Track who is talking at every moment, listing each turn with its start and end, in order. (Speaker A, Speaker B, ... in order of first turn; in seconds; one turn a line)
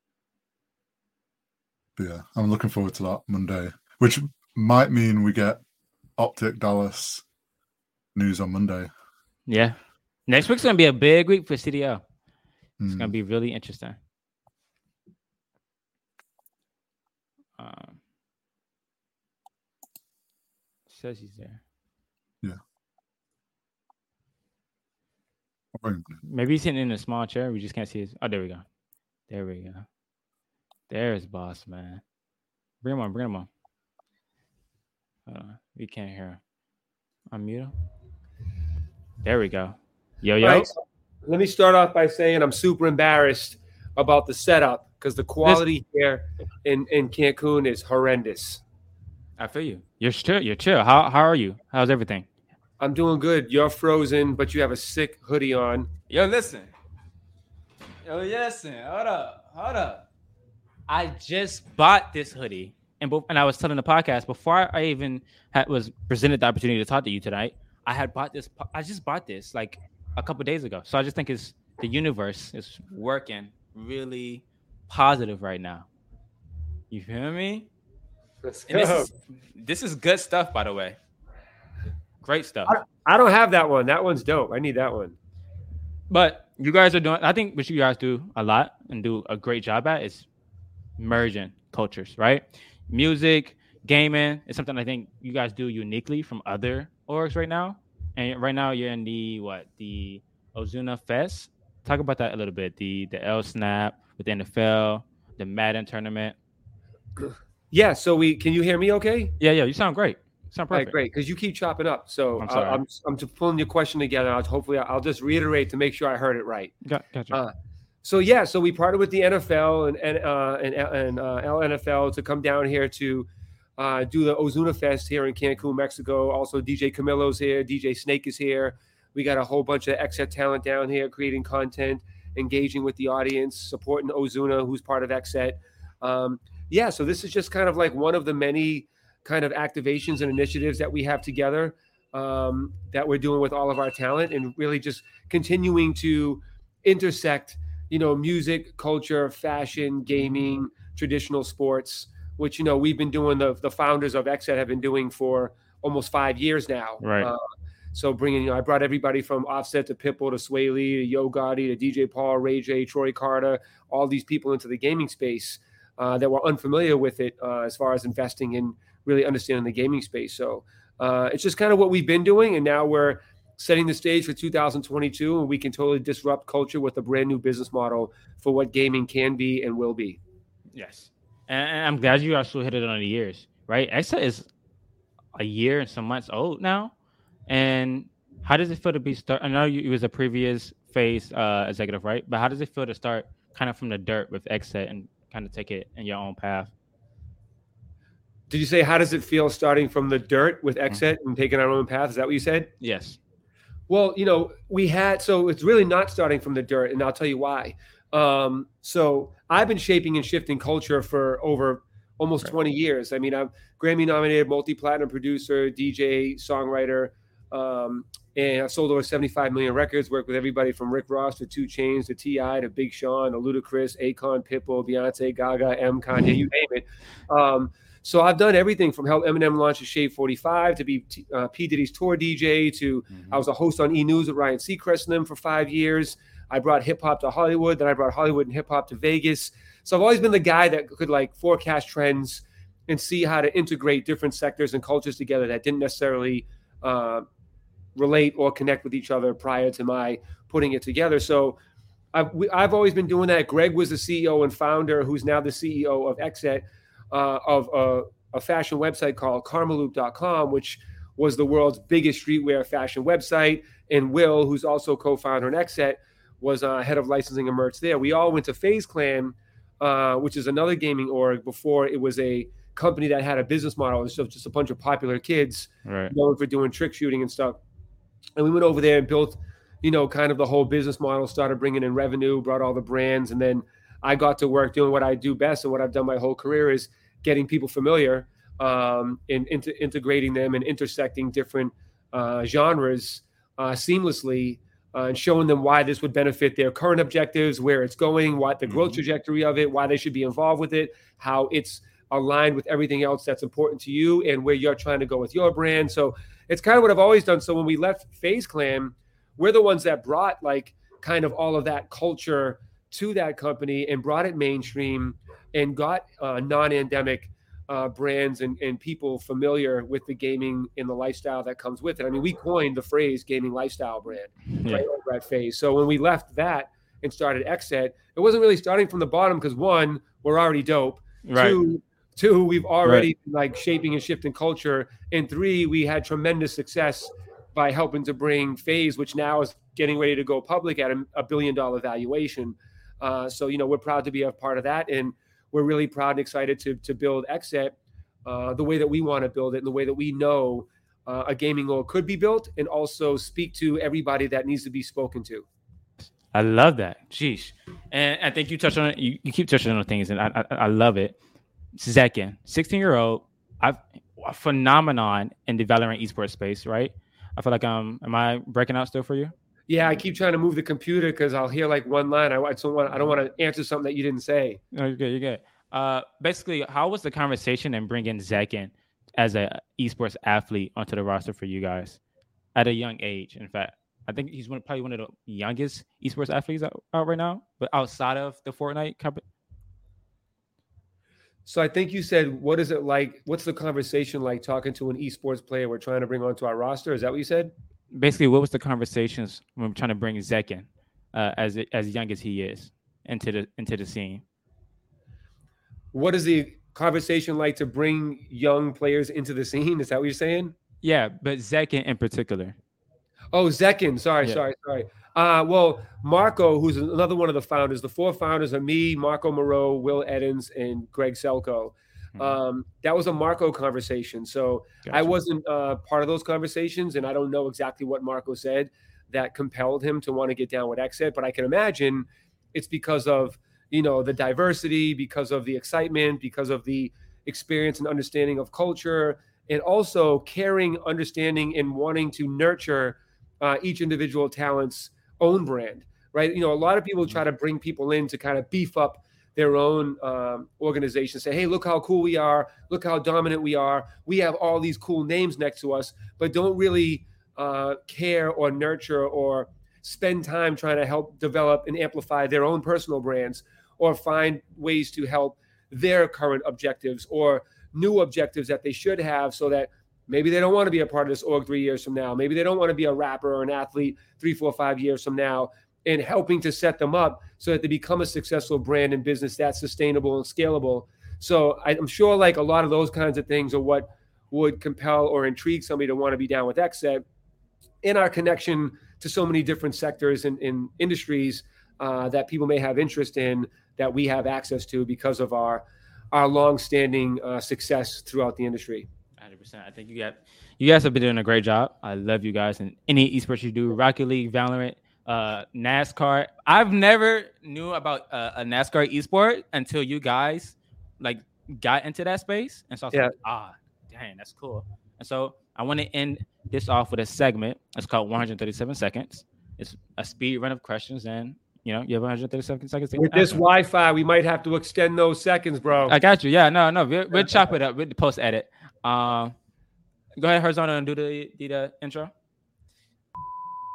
Speaker A: 2.0-5.6
Speaker A: 6.2-7.2
Speaker A: 8.2-8.9
Speaker B: 9.5-12.0
Speaker A: 12.8-13.1
Speaker B: 12.9-14.0
Speaker B: 17.6-18.0
Speaker B: 20.9-21.6
Speaker A: 25.8-26.2
Speaker B: 26.2-28.6
Speaker B: 29.3-29.9
Speaker B: 30.9-32.0
Speaker B: 32.8-33.5
Speaker B: 35.3-36.4
Speaker B: 37.3-37.7
Speaker B: 39.2-40.7
Speaker C: 40.4-40.7
Speaker C: 41.2-48.6
Speaker B: 49.4-52.3
Speaker C: 52.8-55.9
Speaker B: 56.1-56.7
Speaker B: 58.0-60.0
Speaker B: 60.9-75.9
Speaker B: 76.9-77.7
Speaker C: 78.4-79.1
Speaker B: 78.7-81.0
Speaker B: 82.2-82.8
Speaker C: 82.7-85.2
Speaker B: 86.1-90.3
Speaker B: 91.0-106.4
Speaker C: 107.2-109.4
Speaker B: 109.4-111.0
Speaker C: 110.7-116.8
Speaker B: 112.4-112.8
Speaker B: 116.8-117.4
Speaker C: 118.0-123.3
Speaker C: 123.8-157.4
Speaker B: 157.0-157.3
Speaker C: 157.9-180.2
Speaker B: 180.7-184.5
Speaker B: 185.4-186.9
Speaker B: 187.5-196.7
Speaker C: 198.5-202.7
Speaker B: 202.8-203.2
Speaker C: 203.9-247.3
Speaker B: 233.1-233.4
Speaker C: 247.9-251.6
Speaker C: 252.1-277.6
Speaker B: 275.9-276.1
Speaker C: 278.4-355.5
Speaker B: 298.7-299.0
Speaker B: 324.5-324.9
Speaker B: 331.2-331.6
Speaker B: 332.8-333.1
Speaker B: 356.3-361.1
Speaker B: 361.8-369.3
Speaker C: 369.7-374.6
Speaker B: 374.7-382.0
Speaker B: 382.6-389.2
Speaker C: 391.5-397.5
Speaker B: 397.9-404.2
Speaker C: 405.9-410.6
Speaker B: 410.8-412.6
Speaker C: 413.3-487.1
Speaker B: 424.9-425.2
Speaker C: 487.8-498.9
Speaker B: 499.2-523.4
Speaker C: 523.0-526.0
Speaker B: 525.9-529.3
Speaker C: 527.1-527.5
Speaker B: 530.2-532.1